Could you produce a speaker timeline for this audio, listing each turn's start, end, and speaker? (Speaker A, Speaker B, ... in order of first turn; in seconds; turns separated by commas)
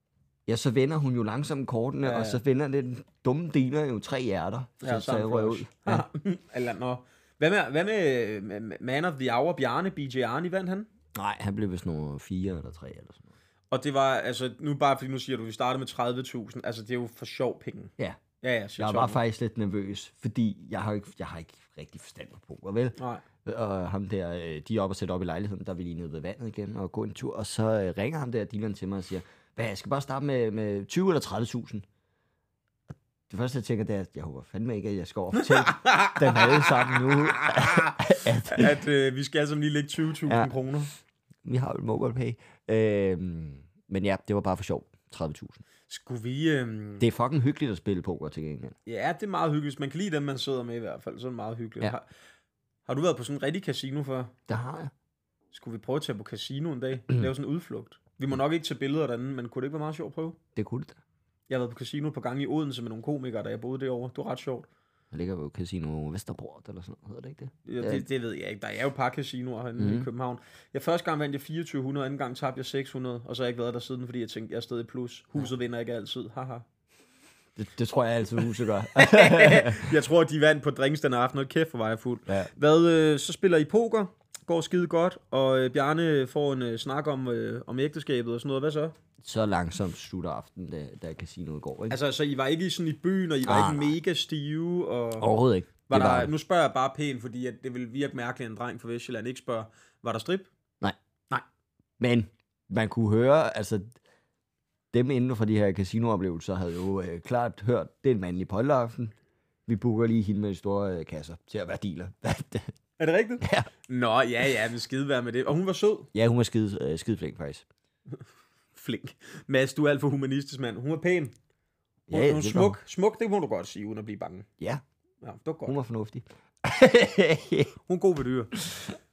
Speaker A: 0.5-6.0, Speaker B: 2.0-2.4, Speaker B: 4.8-10.9, Speaker A: 11.1-13.3, Speaker B: 13.7-19.2, Speaker A: 18.8-31.9, Speaker B: 23.0-23.2, Speaker A: 32.9-38.8, Speaker B: 35.3-40.9, Speaker A: 40.3-40.5, Speaker A: 41.4-45.6, Speaker B: 45.9-47.1, Speaker A: 47.0-48.8, Speaker B: 48.9-52.1, Speaker B: 52.9-54.3, Speaker A: 54.5-54.9, Speaker B: 55.5-60.4, Speaker A: 60.5-61.0, Speaker B: 61.5-64.7, Speaker A: 65.1-68.0, Speaker B: 67.7-76.7, Speaker A: 69.8-70.1, Speaker A: 77.6-80.0, Speaker B: 79.0-88.9, Speaker A: 89.2-92.0, Speaker B: 91.9-95.3, Speaker A: 93.4-93.9, Speaker A: 95.2-96.3, Speaker B: 95.9-100.5, Speaker A: 102.0-103.9, Speaker A: 104.9-109.2, Speaker A: 109.7-112.7, Speaker B: 113.0-116.1, Speaker A: 113.4-113.7, Speaker A: 116.1-117.7, Speaker B: 118.7-121.3, Speaker A: 122.1-122.8, Speaker B: 122.1-124.5, Speaker B: 125.2-125.8, Speaker A: 125.7-127.7, Speaker B: 127.9-128.6